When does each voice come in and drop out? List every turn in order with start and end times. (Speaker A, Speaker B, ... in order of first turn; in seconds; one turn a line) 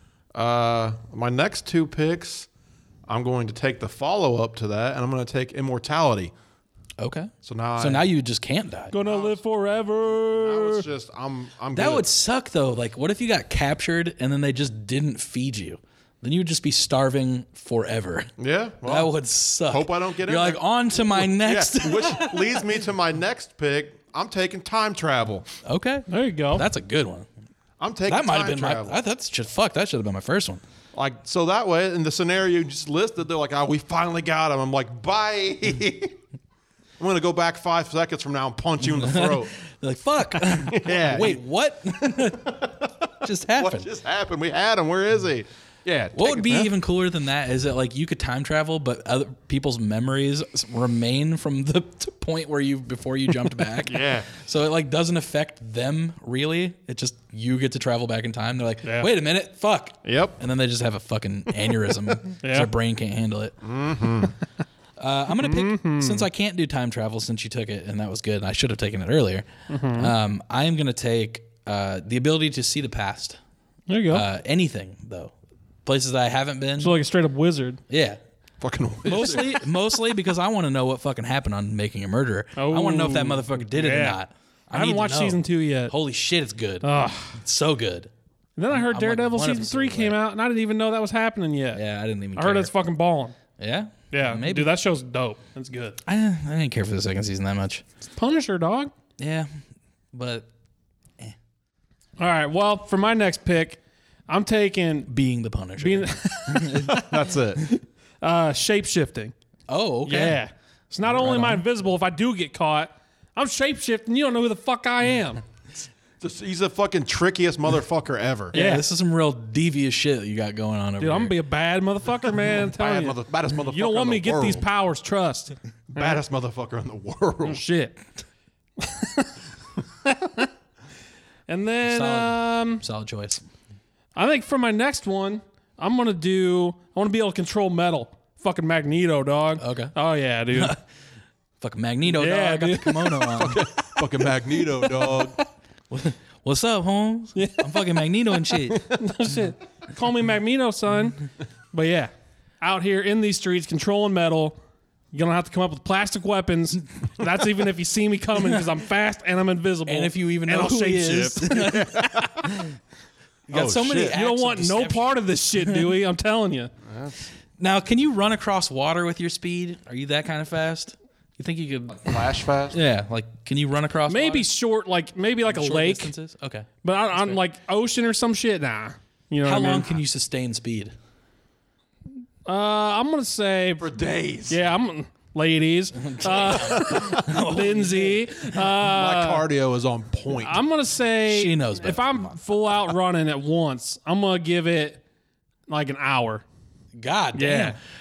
Speaker A: 0.3-2.5
Speaker A: 3.1-6.3
Speaker B: 7.0-8.9
Speaker A: 7.4-8.1
Speaker C: 8.9-10.9
Speaker A: 9.0-9.4
Speaker A: 10.3-12.1
Speaker B: 11.7-18.3
Speaker A: 18.4-19.1
Speaker B: 18.8-22.6
Speaker A: 19.7-25.5
Speaker B: 25.6-27.3
Speaker C: 26.1-26.6
Speaker A: 27.8-29.0
Speaker B: 28.1-30.6
Speaker A: 30.9-36.2
Speaker A: 37.0-39.5
Speaker B: 38.9-43.9
Speaker A: 40.5-41.4
Speaker A: 42.0-46.7
Speaker B: 46.1-63.5
Speaker A: 53.8-54.3
Speaker C: 58.8-59.1
Speaker A: 60.0-60.4
Speaker C: 62.4-62.7
Speaker A: 63.6-64.3
Speaker B: 65.0-73.4
Speaker C: 65.4-66.3
Speaker C: 69.7-70.1
Speaker C: 73.9-74.2
Speaker B: 74.1-75.3
Speaker B: 75.8-77.0
Speaker C: 76.8-77.8
Speaker B: 77.9-78.2
Speaker A: 78.6-79.6
Speaker B: 79.0-88.1
Speaker C: 82.5-84.2
Speaker C: 84.7-85.9
Speaker C: 86.8-87.4
Speaker C: 88.6-91.8
Speaker B: 88.7-90.2
Speaker B: 91.7-92.7
Speaker C: 92.3-93.3
Speaker B: 93.6-94.7
Speaker C: 94.1-96.0
Speaker B: 96.0-97.8
Speaker C: 98.2-98.9
Speaker B: 99.2-99.5
Speaker B: 100.1-100.5
Speaker C: 102.2-105.1
Speaker B: 105.1-107.0
Speaker C: 105.8-109.3
Speaker A: 106.9-107.7
Speaker B: 109.7-110.4
Speaker C: 110.0-115.4
Speaker B: 111.0-111.6
Speaker A: 116.2-118.5
Speaker B: 118.5-121.3
Speaker C: 118.5-118.8
Speaker C: 121.0-126.2
Speaker A: 122.7-124.6
Speaker A: 125.9-127.6
Speaker C: 127.4-128.0
Speaker C: 128.8-129.3
Speaker C: 130.0-130.5
Speaker C: 131.5-132.8
Speaker B: 131.8-133.4
Speaker C: 134.1-140.8
Speaker B: 139.6-139.9
Speaker B: 141.6-143.6
Speaker C: 142.1-143.5
Speaker A: 143.4-145.4
Speaker B: 145.9-148.9
Speaker C: 147.3-147.8
Speaker C: 148.5-154.6
Speaker C: 155.1-161.6
Speaker B: 159.9-162.7
Speaker A: 161.6-162.5
Speaker B: 163.5-165.9
Speaker A: 163.5-164.1
Speaker C: 164.1-166.7
Speaker A: 166.8-167.2
Speaker B: 167.6-172.2
Speaker A: 172.0-172.8
Speaker B: 172.7-174.5
Speaker C: 174.1-176.1
Speaker B: 175.5-177.4
Speaker C: 176.8-179.9
Speaker B: 179.4-180.9
Speaker C: 182.4-183.9
Speaker A: 183.8-184.6
Speaker C: 184.5-189.4
Speaker B: 186.0-188.5
Speaker A: 186.6-187.2
Speaker A: 188.8-190.6
Speaker C: 190.3-195.0
Speaker B: 191.3-192.3
Speaker C: 195.7-196.4
Speaker B: 196.9-197.8
Speaker C: 197.3-197.8